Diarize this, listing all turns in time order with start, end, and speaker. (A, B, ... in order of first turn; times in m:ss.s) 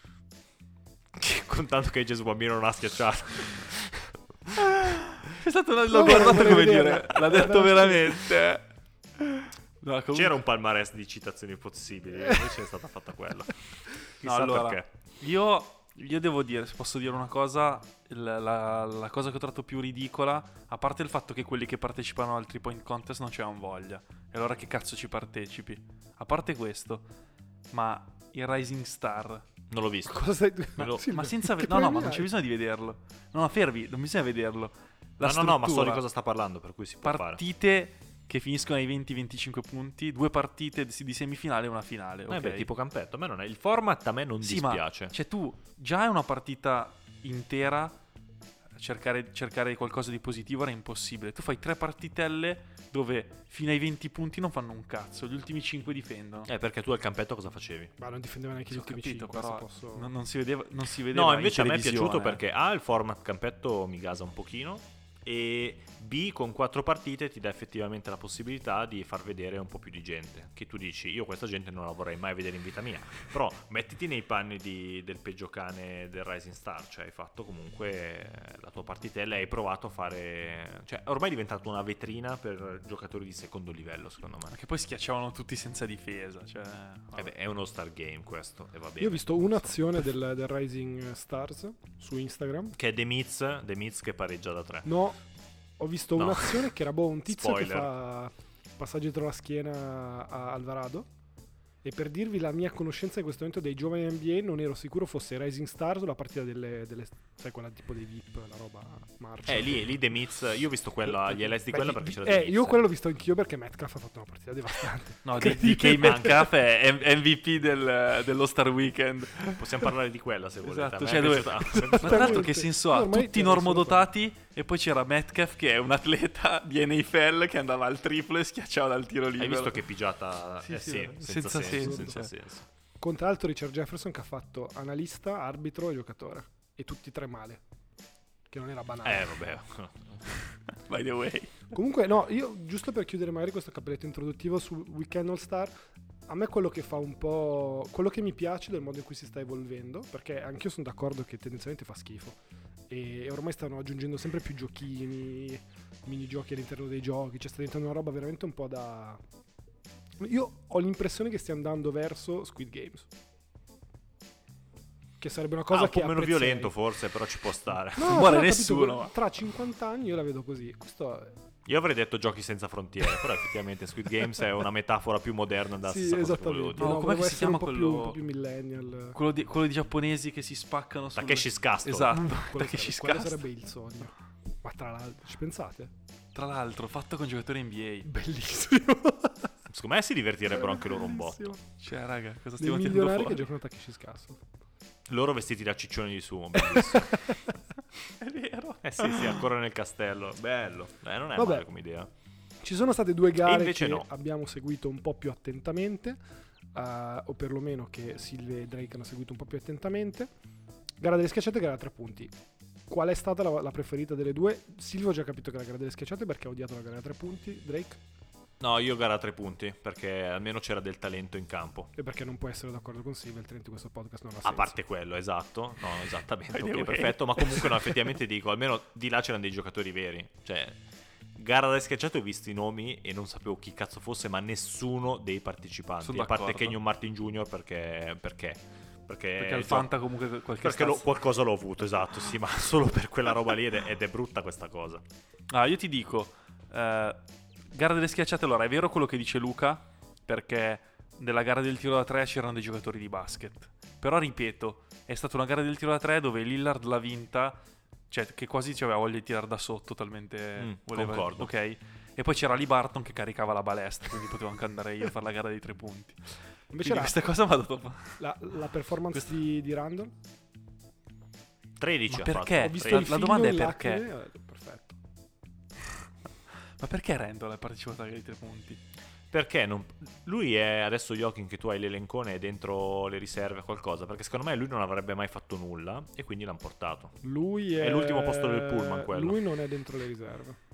0:01.1-0:04.7 A
0:04.7-0:08.6 B
0:05.9-0:08.2 C
0:09.2-0:10.4 B
0:10.1-0:13.5 A
0:14.1-0:14.9 A
0:14.2-0:27.1 B
0:27.7-0:29.4 B
0:29.7-0:31.0 A
0:30.1-0:32.3 C
0:30.8-0:36.0 B
0:35.2-0:37.4 A
0:37.0-0:42.7 B
0:42.3-0:45.1 A
0:44.4-0:48.0 B
0:48.8-0:56.5 B
0:56.5-0:57.9 A
0:58.0-1:00.1 C
0:58.7-1:02.4 B
1:01.1-1:24.6 A
1:24.5-1:27.3 B
1:27.2-1:29.6 A
1:29.0-1:32.8 C
1:32.8-1:34.9 A
1:34.8-1:35.2 C
1:35.8-1:41.1 C
1:36.2-1:36.8 A
1:37.3-1:37.9 A
1:41.8-1:49.9 C
1:49.5-1:52.9 A
1:51.1-1:56.5 C
1:55.2-1:59.8 B
1:55.4-1:56.6 A
1:59.5-2:02.5 A
2:00.6-2:09.8 B
2:01.7-2:04.1 C
2:09.4-2:12.7 A
2:10.7-2:12.2 C
2:10.7-2:12.3 B
2:13.0-2:17.6 C
2:18.5-2:19.3 C
2:19.0-2:20.2 A
2:20.7-2:21.7 B
2:21.7-2:25.7 C
2:26.3-2:32.4 C
2:32.9-2:39.2 C
2:40.2-2:43.1 C
2:45.2-2:46.7 C
2:45.7-2:48.3 A
2:48.0-2:51.4 C
2:48.0-2:49.1 B
2:51.7-2:56.9 A
2:55.8-2:59.2 C
2:56.8-2:58.2 B
2:59.2-3:03.4 B
3:01.2-3:02.2 A
3:02.1-3:05.9 C
3:06.3-3:08.1 B
3:08.0-3:09.5 C
3:09.7-3:11.6 A
3:10.5-3:11.6 C
3:11.8-3:13.5 B
3:12.6-3:14.4 C
3:15.1-3:17.2 A
3:16.7-3:17.5 C
3:18.2-3:19.4 B
3:18.8-3:22.1 A
3:21.4-3:21.7 C
3:22.6-3:26.2 C
3:23.4-3:24.1 A
3:26.7-3:30.3 C
3:31.0-3:32.3 C
3:32.9-3:38.0 C
3:38.6-3:41.9 A
3:42.0-3:44.7 C
3:44.4-3:50.8 A
3:46.5-3:48.1 B
3:51.4-4:00.0 A
3:56.0-3:56.8 B
3:59.4-4:01.1 B
4:00.6-4:05.0 A
4:05.5-4:28.2 B
4:20.6-4:21.5 A
4:26.7-4:27.2 C
4:28.2-4:30.1 C
4:31.8-4:33.1 A
4:32.1-4:34.1 B
4:32.6-4:35.0 C
4:36.8-4:38.8 B
4:39.3-4:47.2 A
4:47.2-4:50.6 C
4:47.8-4:49.4 A